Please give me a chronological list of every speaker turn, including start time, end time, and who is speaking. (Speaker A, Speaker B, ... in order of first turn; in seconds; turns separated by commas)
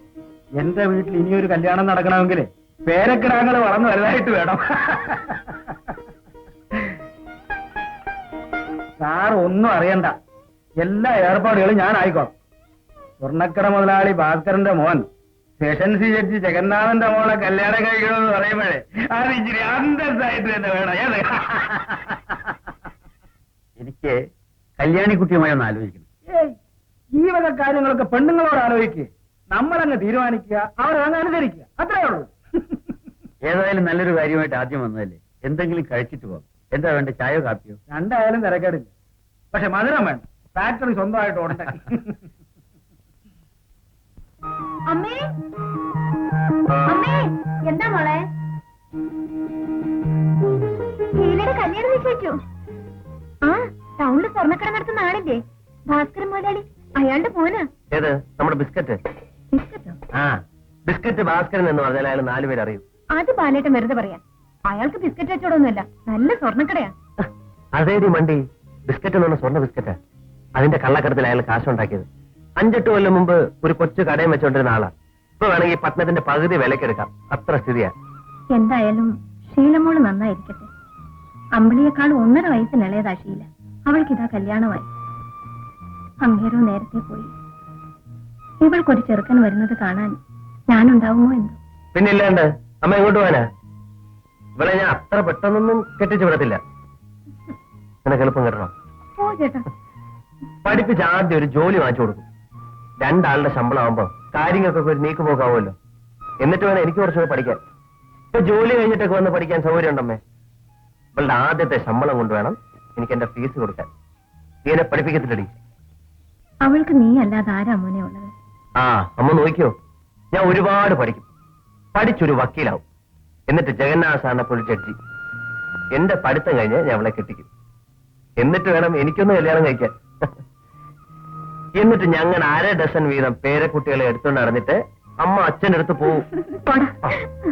Speaker A: 0.6-5.4, Speaker A: 9.0-10.1, Speaker A: 10.8-12.3, Speaker A: 13.2-15.1, Speaker A: 15.6-22.3, Speaker B: 23.8-24.2, Speaker B: 24.8-26.0, Speaker A: 26.3-26.5, Speaker A: 27.2-32.3, Speaker B: 33.4-37.8, Speaker A: 37.9-38.9, Speaker A: 39.5-42.1, Speaker C: 44.9-45.2, Speaker C: 46.9-48.2, Speaker C: 51.2-52.4, Speaker C: 53.4-57.7, Speaker D: 57.9-59.0, Speaker C: 59.5-60.0, Speaker D: 60.9-62.8, Speaker C: 63.1-66.9, Speaker D: 67.7-70.0, Speaker D: 70.5-77.9, Speaker C: 78.5-80.7, Speaker C: 81.5-84.9, Speaker C: 86.2-87.3, Speaker C: 88.6-90.2, Speaker C: 90.7-91.6, Speaker D: 91.9-93.4, Speaker D: 94.6-96.6, Speaker D: 98.0-98.7, Speaker C: 99.2-99.6, Speaker D: 100.6-102.2, Speaker D: 103.0-105.7, Speaker D: 106.4-107.6, Speaker D: 108.3-110.2, Speaker D: 111.2-113.9, Speaker D: 114.7-115.5, Speaker C: 116.6-118.3, Speaker D: 118.8-119.7, Speaker D: 120.3-121.3, Speaker D: 121.9-122.8, Speaker D: 123.5-125.0, Speaker D: 125.9-127.5, Speaker D: 128.4-130.3, Speaker D: 131.8-136.2, Speaker C: 136.6-137.1